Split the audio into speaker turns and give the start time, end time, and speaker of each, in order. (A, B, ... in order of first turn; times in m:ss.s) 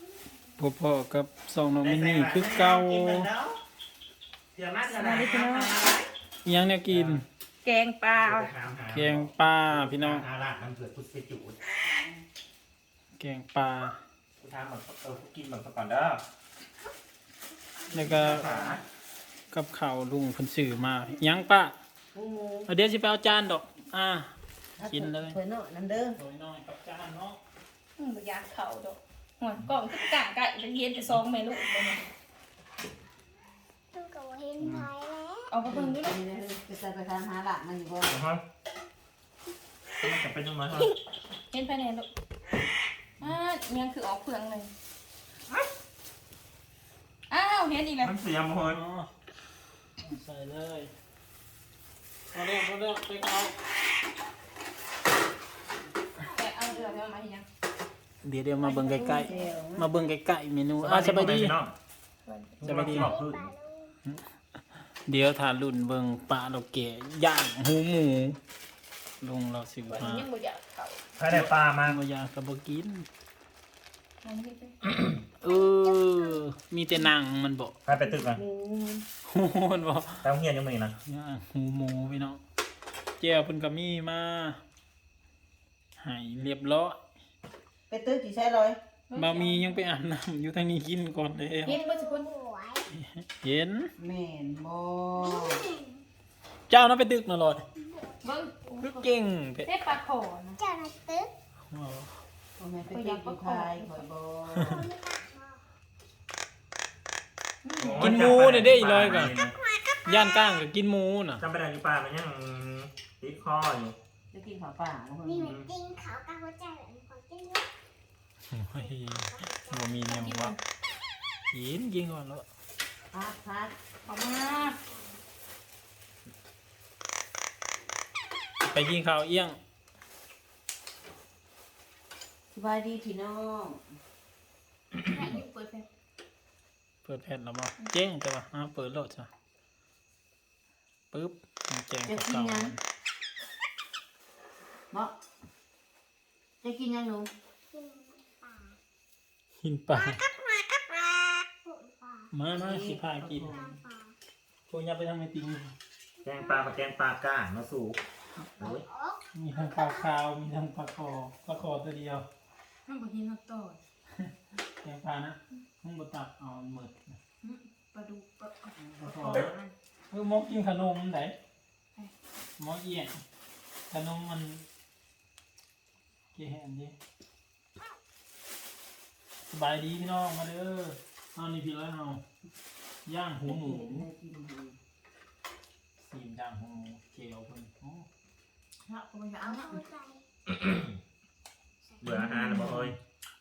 0:00.6-0:03.3 A
0:01.8-0:03.6 B
0:04.5-0:06.1 B
0:04.9-0:05.9 C
0:06.4-0:07.2 A
0:06.9-0:07.2 B
0:07.6-0:08.5 C
0:08.1-0:11.6 B
0:08.9-0:10.3 A
0:11.9-0:12.2 D
0:13.2-0:14.0 A
0:14.4-0:16.2 B
0:17.9-0:18.5 A
0:18.0-0:18.8 B
0:18.2-0:18.7 D
0:19.5-0:21.8 A
0:22.1-0:22.7 D
0:22.7-0:25.4 A
0:24.8-0:26.2 D
0:26.1-0:27.4 A
0:28.0-0:32.0 C
0:33.9-0:35.6 E
0:34.6-0:34.9 A
0:35.5-0:36.2 C
0:35.7-0:38.1 D
0:38.1-0:38.4 B
0:40.0-0:40.9 B
0:41.5-0:42.1 C
0:43.2-0:44.7 C
0:47.3-0:48.1 C
0:48.0-0:48.8 B
0:48.6-0:49.1 A
0:50.0-0:50.9 A
0:52.3-0:53.6 A
0:56.2-0:57.0 E
0:56.3-0:57.4 C
0:58.2-1:01.6 A
0:58.6-0:59.5 C
0:59.0-0:59.9 D
1:00.8-1:01.7 B
1:02.2-1:02.6 C
1:02.6-1:03.4 B
1:02.6-1:03.2 A
1:02.9-1:03.9 E
1:04.0-1:08.4 A
1:09.2-1:10.3 A
1:09.9-1:11.1 C
1:11.2-1:12.0 B
1:11.3-1:13.1 A
1:14.2-1:14.8 C
1:15.4-1:17.8 A
1:15.4-1:16.4 E
1:17.8-1:18.4 B
1:18.1-1:19.0 D
1:19.2-1:20.3 A
1:20.2-1:21.0 B
1:21.0-1:22.4 A
1:23.2-1:24.6 A
1:26.0-1:27.0 A
1:27.9-1:28.8 D
1:29.1-1:29.8 C
1:29.1-1:31.8 A
1:31.6-1:32.3 C
1:31.7-1:32.9 E
1:32.9-1:33.9 A
1:34.0-1:35.6 D
1:35.2-1:36.0 E
1:36.7-1:37.6 A
1:37.8-1:38.2 E
1:38.2-1:39.1 C
1:38.8-1:39.7 A
1:39.6-1:40.6 C
1:40.6-1:41.3 E
1:41.7-1:42.1 A
1:42.6-1:44.7 D
1:42.9-1:44.0 C
1:44.5-1:45.6 E
1:44.6-1:44.8 A
1:47.6-1:48.3 C
1:47.8-1:49.6 B
1:48.0-1:49.4 A
1:50.0-1:51.4 A
1:51.4-1:54.0 B
1:54.3-1:55.6 D
1:55.2-1:57.7 E
1:55.4-1:55.7 B
1:58.5-2:00.6 A
1:58.8-1:59.9 E
2:00.0-2:00.6 C
2:01.5-2:02.4 A
2:03.1-2:03.7 D
2:04.0-2:04.8 C
2:04.3-2:05.2 E
2:08.6-2:09.6 A
2:12.5-2:13.9 D
2:15.0-2:15.9 C
2:17.0-2:19.3 A
2:21.1-2:22.8 A
2:22.0-2:22.7 D
2:26.6-2:27.3 D
2:27.7-2:28.8 E
2:29.6-2:30.2 A
2:31.6-2:32.3 E
2:32.3-2:33.7 A
2:32.5-2:33.6 D
2:33.3-2:34.2 E
2:34.7-2:35.7 A
2:36.2-2:36.7 E
2:36.2-2:38.0 B
2:38.6-2:38.8 B
2:38.7-2:40.1 E
2:39.3-2:42.3 A
2:42.8-2:43.8 C
2:44.1-2:47.2 A
2:47.4-2:49.7 C
2:48.8-2:49.5 A
2:50.1-2:51.4 A
2:52.6-2:53.2 A
2:53.9-2:54.6 A
2:56.3-2:57.0 A
2:59.5-3:02.2 A
3:03.0-3:04.0 A
3:03.4-3:04.8 D
3:06.0-3:08.1 A
3:08.8-3:09.8 C
3:09.4-3:10.2 E
3:10.5-3:10.9 B
3:12.0-3:12.9 B
3:12.1-3:12.5 C
3:12.4-3:13.0 A